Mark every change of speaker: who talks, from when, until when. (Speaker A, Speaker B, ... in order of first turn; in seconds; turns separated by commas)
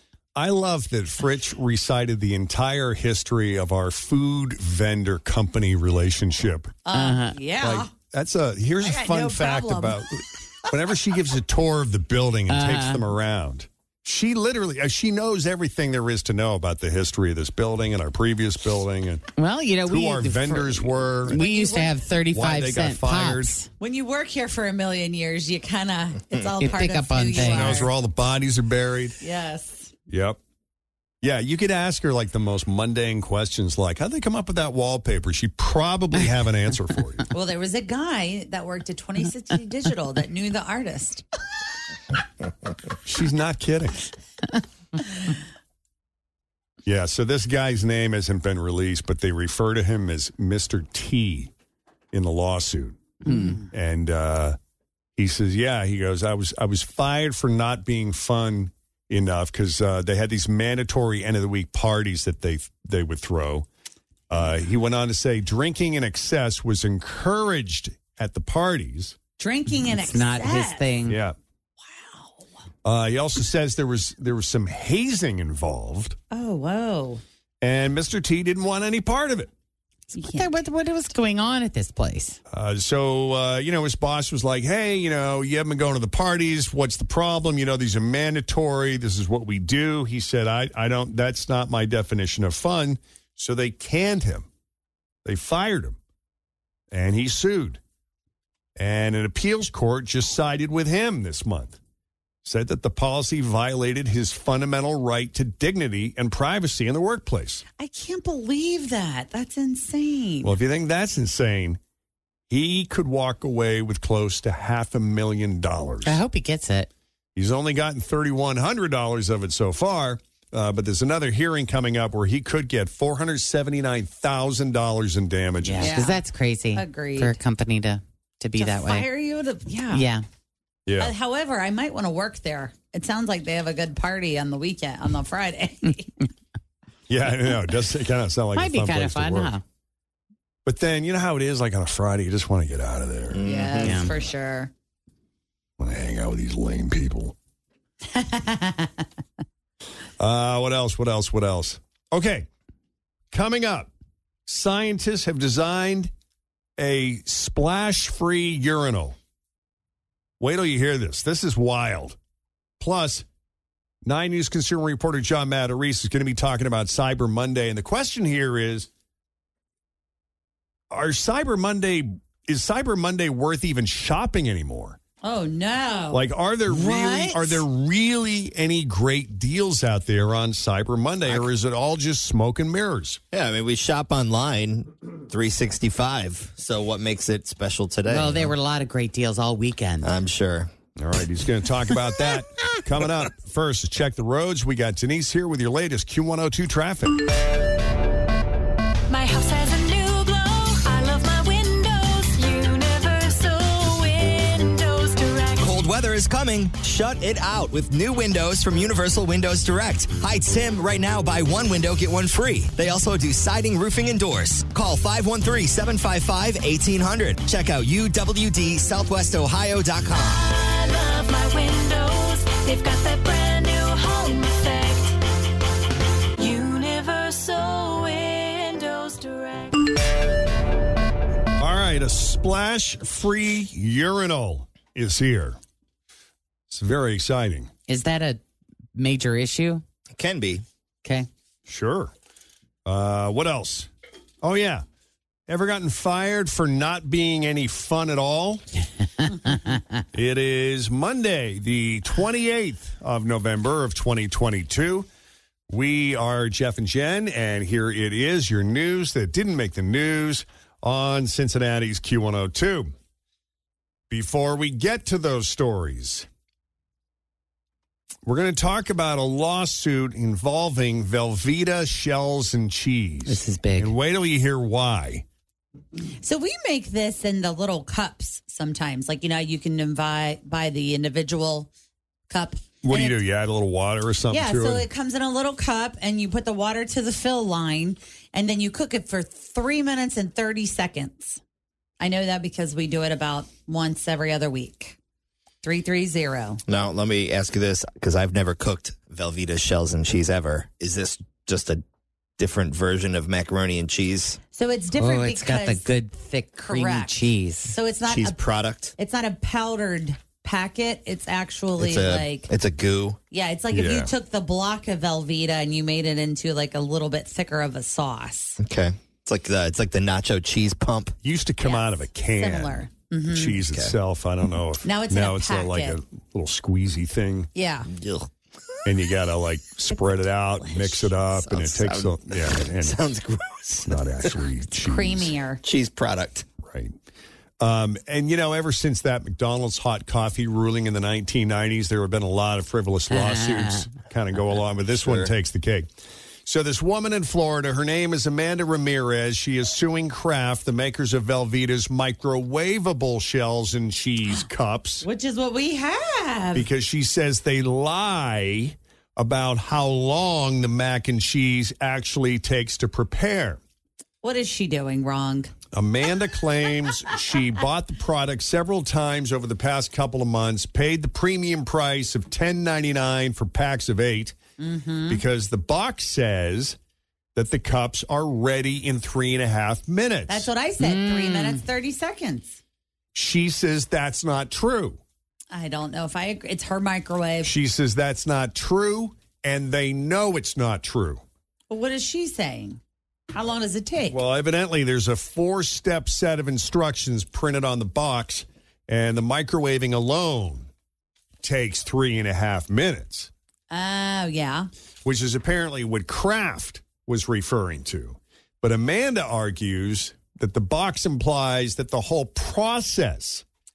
Speaker A: 0.3-6.8, Speaker B: 6.9-7.9, Speaker C: 6.9-7.4, Speaker A: 7.6-19.3, Speaker B: 8.8-10.0, Speaker C: 12.5-13.1, Speaker C: 19.4-23.7, Speaker A: 19.8-21.4, Speaker B: 21.3-21.9, Speaker A: 22.3-23.6, Speaker B: 23.8-27.9, Speaker C: 26.6-27.9, Speaker A: 27.4-29.2, Speaker B: 29.2-29.9, Speaker A: 30.1-30.4, Speaker A: 31.2-37.3, Speaker B: 37.3-41.2, Speaker A: 43.0-44.1, Speaker A: 46.9-51.5, Speaker A: 52.1-53.0, Speaker C: 53.2-53.6, Speaker A: 53.7-54.6, Speaker A: 55.2-63.7, Speaker A: 64.3-69.2, Speaker B: 69.4-70.9, Speaker C: 69.9-71.2, Speaker A: 71.1-71.4, Speaker A: 72.8-76.2, Speaker B: 76.3-77.2, Speaker A: 77.6-79.5, Speaker B: 80.2-80.5, Speaker C: 80.2-82.4, Speaker A: 82.5-94.5, Speaker A: 95.2-96.0, Speaker A: 96.9-97.8, Speaker A: 98.8-101.8, Speaker A: 102.4-107.6, Speaker B: 107.8-110.5, Speaker A: 110.4-111.8, Speaker A: 112.5-116.2, Speaker C: 116.0-116.9, Speaker A: 117.3-126.0, Speaker C: 125.6-129.1, Speaker B: 125.8-126.2, Speaker B: 126.7-127.4, Speaker B: 128.6-130.1, Speaker C: 129.9-130.2, Speaker A: 130.9-131.1, Speaker B: 131.0-136.1, Speaker A: 137.1-139.5, Speaker C: 138.6-139.6, Speaker A: 140.7-143.4, Speaker D: 143.3-144.0, Speaker B: 143.4-144.7, Speaker C: 143.8-144.1, Speaker A: 145.8-147.3, Speaker B: 148.1-148.9, Speaker A: 150.2-152.5, Speaker A: 153.3-153.9, Speaker A: 154.5-156.1, Speaker A: 156.8-159.2, Speaker A: 160.4-162.2, Speaker A: 162.8-163.2, Speaker A: 164.0-168.9, Speaker A: 170.9-175.0, Speaker B: 175.2-176.2, Speaker A: 176.1-183.2, Speaker C: 176.7-177.6, Speaker D: 183.3-188.5, Speaker C: 188.1-190.1, Speaker D: 190.0-190.7, Speaker A: 191.0-197.2, Speaker E: 199.1-205.8, Speaker D: 205.6-220.5, Speaker E: 220.3-225.2, Speaker E: 226.3-229.9, Speaker A: 231.6-235.6, Speaker A: 236.7-237.7, Speaker C: 237.9-238.4, Speaker C: 238.9-239.8, Speaker D: 240.1-240.6, Speaker A: 241.7-242.1, Speaker A: 242.8-243.9, Speaker A: 244.4-244.8, Speaker A: 245.5-248.7, Speaker C: 249.5-249.8, Speaker A: 250.1-255.1, Speaker A: 255.7-262.9, Speaker A: 264.1-266.3, Speaker A: 268.3-275.2, Speaker C: 273.3-273.9, Speaker B: 276.2-281.7, Speaker B: 282.3-283.2, Speaker A: 282.8-284.9, Speaker B: 284.3-291.4, Speaker B: 292.0-295.0, Speaker B: 295.6-296.6, Speaker D: 296.7-301.8, Speaker D: 302.4-304.4, Speaker B: 304.5-305.9, Speaker C: 305.0-307.8, Speaker B: 306.6-308.4, Speaker D: 308.1-308.9, Speaker B: 309.0-312.5, Speaker D: 311.8-313.2, Speaker B: 313.3-318.6, Speaker A: 313.7-314.1, Speaker D: 318.6-321.2, Speaker A: 321.2-327.5, Speaker B: 321.6-323.6, Speaker D: 323.7-323.9, Speaker B: 324.8-326.0, Speaker B: 327.6-327.9, Speaker D: 327.9-328.8, Speaker A: 328.9-333.0, Speaker D: 331.3-334.4, Speaker A: 333.9-335.4, Speaker B: 334.8-335.6, Speaker D: 335.6-336.5, Speaker A: 336.6-336.9, Speaker A: 337.6-345.9, Speaker C: 343.1-343.8, Speaker D: 345.0-345.3, Speaker A: 346.4-355.1, Speaker B: 355.0-356.7, Speaker A: 356.6-363.6, Speaker B: 364.2-365.5, Speaker A: 365.7-374.4, Speaker B: 374.6-375.2, Speaker A: 375.1-376.8, Speaker A: 377.4-380.5, Speaker B: 380.3-382.6, Speaker C: 380.8-381.6, Speaker A: 383.1-385.0, Speaker B: 385.5-387.5, Speaker A: 387.4-391.2, Speaker B: 391.7-392.8, Speaker B: 393.3-394.2, Speaker A: 394.1-400.7, Speaker A: 401.4-403.3, Speaker B: 403.7-404.7, Speaker A: 405.0-413.4